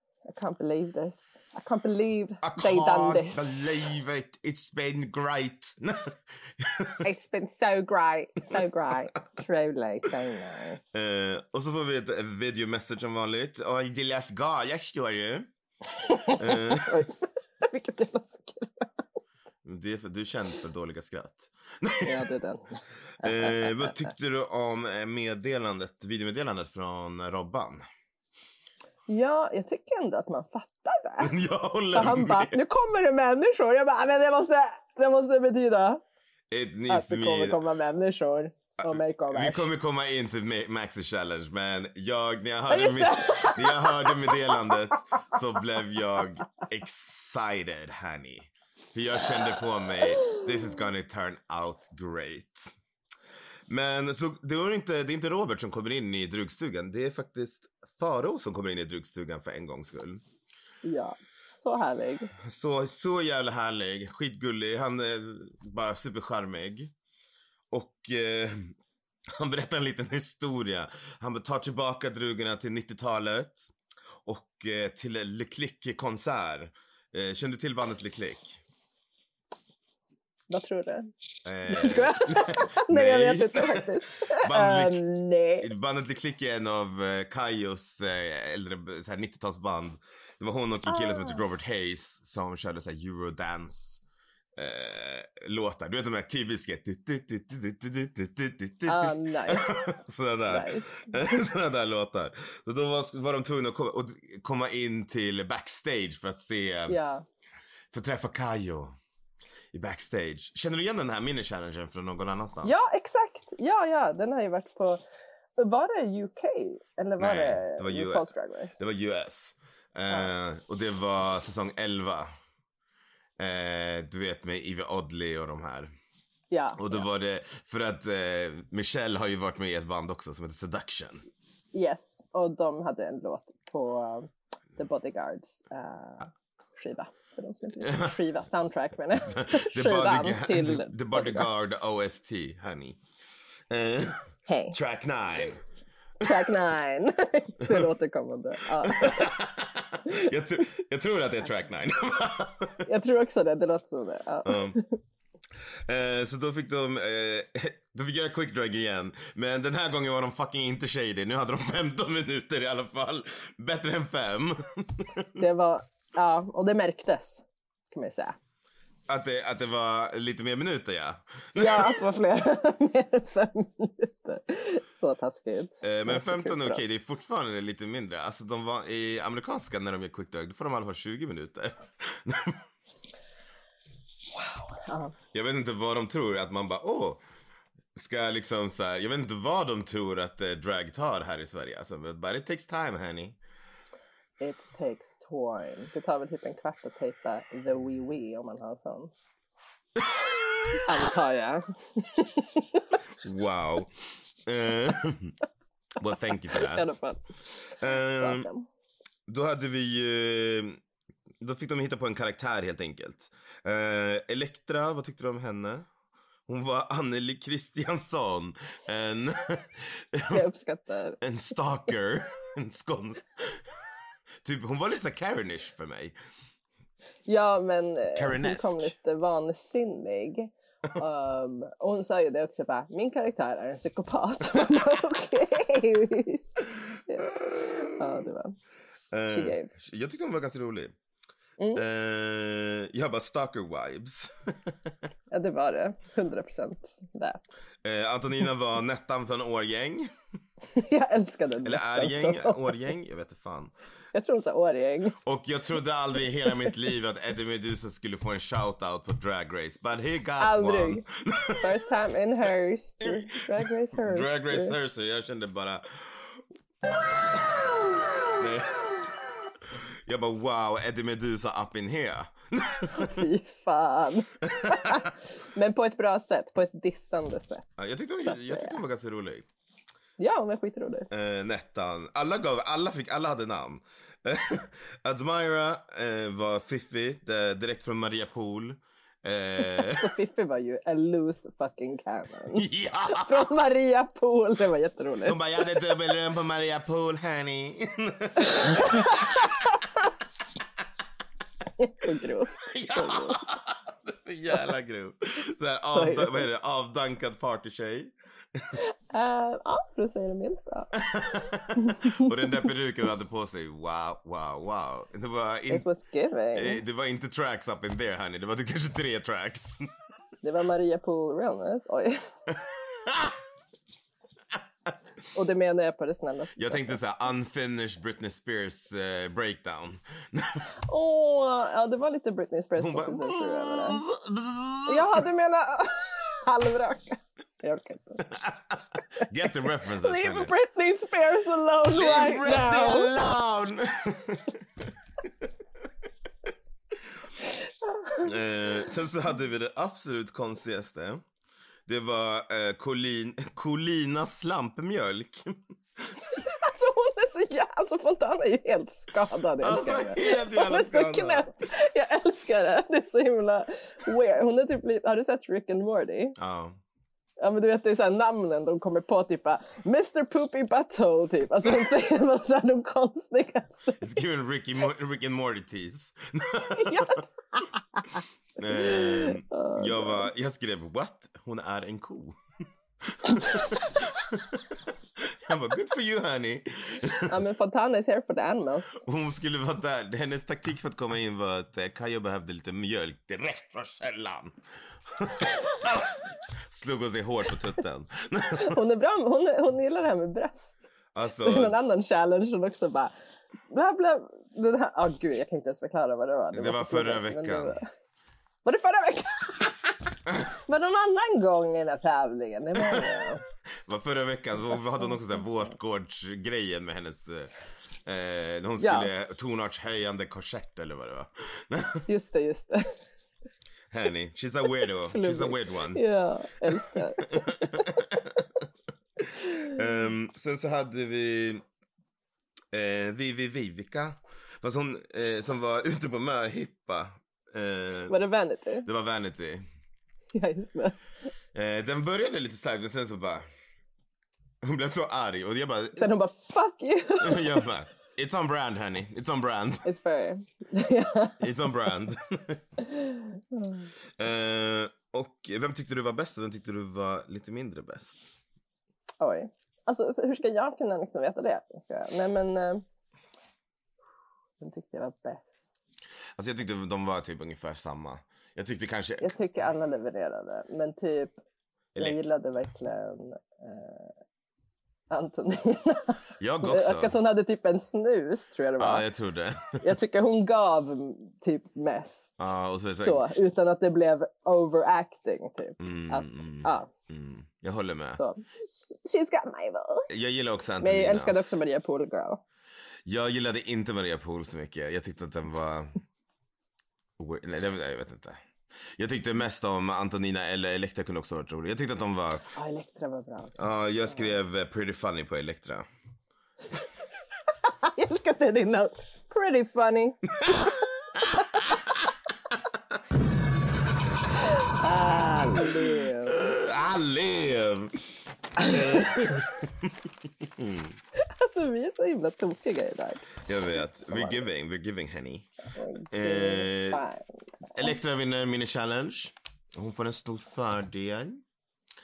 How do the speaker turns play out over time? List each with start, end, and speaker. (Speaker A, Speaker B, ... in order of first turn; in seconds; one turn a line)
Speaker A: 0.3-3.9
Speaker B: 2.4-7.1
Speaker A: 7.0-10.8
Speaker B: 10.9-15.5
Speaker A: 16.0-18.9
Speaker B: 16.4-17.1
Speaker B: 19.6-22.2
Speaker A: 22.0-23.9
Speaker B: 23.2-27.9
Speaker A: 29.1-31.3
Speaker B: 31.2-32.6
Speaker A: 31.9-36.0
Speaker B: 36.5-37.6
Speaker A: 36.9-39.7
Speaker B: 38.8-52.7
Speaker A: 42.7-44.8
Speaker B: 53.7-60.2
Speaker A: 60.8-62.3
Speaker B: 62.4-66.9
Speaker B: 67.7-68.7
Speaker B: 69.3-73.7
Speaker B: 74.2-78.6
Speaker A: 80.5-81.1
Speaker B: 81.4-85.0
Speaker A: 81.7-85.7
Speaker B: 85.6-94.0
Speaker A: 90.9-91.4
Speaker B: 94.6-107.0
Speaker A: 98.9-99.8
Speaker A: 100.5-101.4
Speaker A: 106.9-107.2
Speaker B: 107.9-108.9
Speaker B: 109.7-112.8
Speaker A: 112.6-115.0
Speaker A: 115.6-118.8
Speaker B: 117.2-122.3
Speaker B: 123.4-125.9
Speaker A: 126.5-127.0
Speaker B: 126.8-131.2
Speaker A: 131.7-141.5
Speaker B: 137.8-138.1
Speaker B: 139.2-143.0
Speaker B: 143.7-145.6
Speaker A: 144.5-144.8
Speaker A: 146.2-149.3
Speaker B: 148.8-152.9
Speaker A: 152.8-154.9
Speaker B: 154.4-154.8
Speaker B: 155.9-165.3
Speaker A: 165.4-168.3
Speaker B: 169.1-172.0
Speaker A: 171.6-176.9
Speaker B: 175.8-182.6
Speaker A: 184.3-185.1
Speaker B: 185.3-187.2
Speaker B: 187.9-193.4
Speaker A: 194.4-199.1
Speaker B: 200.0-200.8
Speaker A: 200.8-202.8
Speaker B: 203.2-203.9
Speaker B: 204.4-205.3
Speaker B: 206.0-206.9
Speaker A: 206.5-208.7
Speaker B: 207.8-208.5
Speaker B: 209.3-210.8
Speaker B: 211.4-215.9
Speaker B: 216.5-220.4
Speaker A: 220.3-221.2
Speaker B: 221.2-223.7
Speaker B: 224.4-226.2
Speaker A: 227.2-238.6
Speaker B: 228.1-228.9
Speaker B: 237.3-238.2
Speaker B: 239.1-240.9
Speaker A: 239.3-239.7
Speaker B: 241.7-244.9
Speaker A: 245.3-247.4
Speaker B: 247.8-250.1
Speaker A: 250.7-252.8
Speaker B: 251.6-253.7
Speaker A: 254.1-255.2
Speaker B: 255.2-261.7
Speaker A: 260.4-261.0
Speaker A: 261.6-264.7
Speaker B: 263.0-266.4
Speaker B: 268.3-269.0
Speaker B: 269.7-273.2
Speaker A: 272.9-277.7
Speaker B: 274.4-275.1
Speaker B: 277.8-279.5
Speaker A: 278.2-278.8
Speaker A: 280.2-281.1
Speaker B: 281.1-290.1
Speaker A: 289.7-295.9
Speaker B: 292.5-293.5
Speaker B: 295.2-299.6
Speaker A: 298.4-299.5
Speaker A: 301.8-303.4
Speaker B: 302.6-308.7
Speaker A: 305.9-306.5
Speaker A: 308.7-310.9
Speaker B: 310.9-315.8
Speaker A: 311.7-312.6
Speaker A: 315.7-316.8
Speaker B: 316.5-319.9
Speaker A: 320.4-322.2
Speaker B: 322.5-323.4
Speaker A: 325.3-327.0
Speaker B: 326.6-330.7
Speaker A: 330.9-334.0
Speaker B: 332.8-335.2
Speaker A: 334.9-338.3
Speaker B: 338.3-340.5
Speaker A: 339.9-343.1
Speaker B: 341.9-344.6
Speaker A: 347.8-348.3
Speaker B: 348.2-351.2
Speaker B: 351.9-356.1
Speaker A: 356.3-366.4
Speaker B: 359.6-361.5
Speaker B: 366.4-366.8
Speaker A: 367.4-374.0
Speaker B: 374.0-377.2
Speaker A: 376.8-377.2
Speaker B: 378.6-382.4
Speaker A: 378.6-380.3
Speaker B: 383.0-387.4
Speaker A: 387.2-389.0
Speaker B: 389.0-398.8
Speaker A: 398.5-400.8
Speaker B: 401.1-401.7
Speaker A: 401.4-403.1
Speaker A: 403.7-407.9
Speaker B: 406.5-407.8
Speaker A: 408.6-409.9
Speaker A: 410.6-413.4
Speaker B: 412.8-413.1
Speaker B: 413.9-417.5
Speaker B: 418.0-422.1
Speaker A: 418.8-419.1
Speaker A: 422.1-423.0
Speaker B: 423.9-426.0
Speaker A: 425.1-428.1
Speaker B: 426.7-428.6
Speaker B: 429.2-431.6
Speaker B: 432.7-438.1
Speaker A: 438.1-438.9
Speaker B: 438.8-439.6
Speaker A: 440.3-441.0
Speaker B: 441.5-443.4
Speaker B: 444.6-446.1
Speaker A: 446.0-447.6
Speaker B: 447.2-449.8
Speaker A: 449.8-451.5
Speaker B: 451.4-452.6
Speaker A: 452.8-453.9
Speaker B: 454.2-458.3
Speaker A: 459.2-462.8
Speaker A: 464.6-465.7
Speaker B: 466.4-469.3
Speaker A: 469.2-471.4
Speaker B: 471.9-472.3
Speaker A: 471.9-474.1
Speaker A: 475.1-479.1
Speaker B: 476.4-477.1
Speaker B: 478.8-479.8
Speaker A: 479.8-486.9
Speaker B: 482.4-483.2
Speaker B: 485.8-488.2
Speaker A: 488.1-490.1
Speaker B: 490.1-491.6
Speaker A: 490.8-492.4
Speaker B: 493.1-496.0
Speaker B: 497.2-498.4
Speaker B: 499.0-502.5
Speaker A: 502.5-504.3
Speaker B: 503.6-505.9
Speaker A: 507.8-510.3
Speaker B: 510.4-511.4
Speaker A: 514.4-516.5
Speaker B: 516.2-518.0
Speaker B: 518.6-520.9
Speaker A: 521.1-523.5
Speaker B: 523.5-525.5
Speaker A: 524.1-524.4
Speaker A: 525.7-527.9
Speaker B: 526.1-527.0
Speaker B: 527.7-531.4